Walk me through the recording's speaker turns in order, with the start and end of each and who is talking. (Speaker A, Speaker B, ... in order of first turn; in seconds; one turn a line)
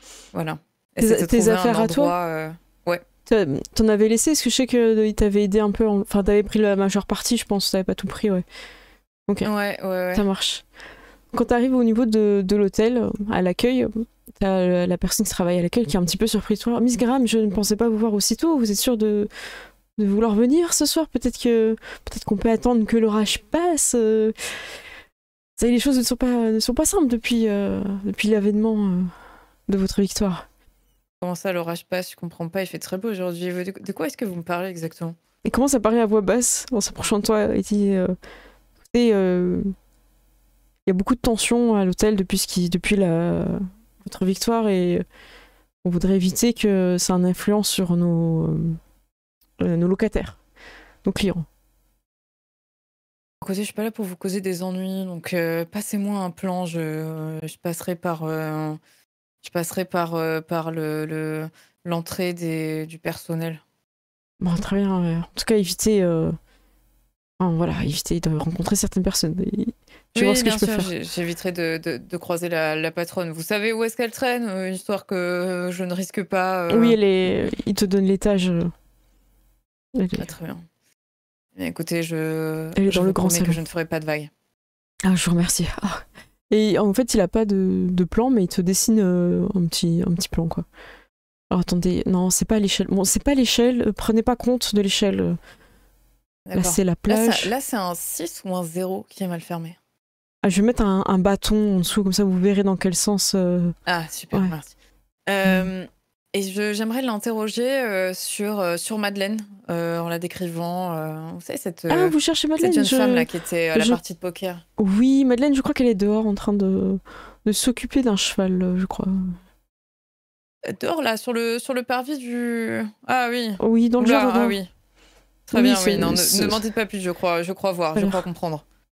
Speaker A: 0.3-3.0
Speaker B: 1.0-2.1
Speaker B: 3.2-8.4
Speaker A: 9.4-10.2
Speaker B: 10.1-10.6
Speaker B: 11.3-19.3
Speaker B: 20.0-24.4
Speaker B: 25.6-29.1
Speaker B: 29.7-30.4
Speaker A: 31.2-35.2
Speaker B: 35.4-38.1
Speaker B: 38.9-39.7
Speaker B: 40.9-45.0
Speaker B: 45.8-48.8
Speaker B: 49.6-50.4
Speaker B: 51.0-51.5
Speaker A: 53.4-58.8
Speaker A: 59.4-63.6
Speaker B: 64.4-66.4
Speaker B: 67.4-70.9
Speaker A: 70.1-77.0
Speaker B: 76.7-78.7
Speaker B: 79.9-80.3
Speaker A: 80.2-80.7
Speaker A: 81.6-84.3
Speaker B: 82.8-83.6
Speaker B: 85.0-90.6
Speaker B: 91.5-95.4
Speaker A: 96.5-99.8
Speaker B: 96.5-97.5
Speaker B: 100.4-103.7
Speaker A: 103.9-104.7
Speaker A: 105.3-114.6
Speaker B: 105.4-105.7
Speaker B: 111.9-114.0
Speaker B: 114.8-119.1
Speaker A: 120.7-124.7
Speaker B: 123.6-124.6
Speaker A: 125.5-128.6
Speaker B: 125.5-126.6
Speaker B: 127.9-128.2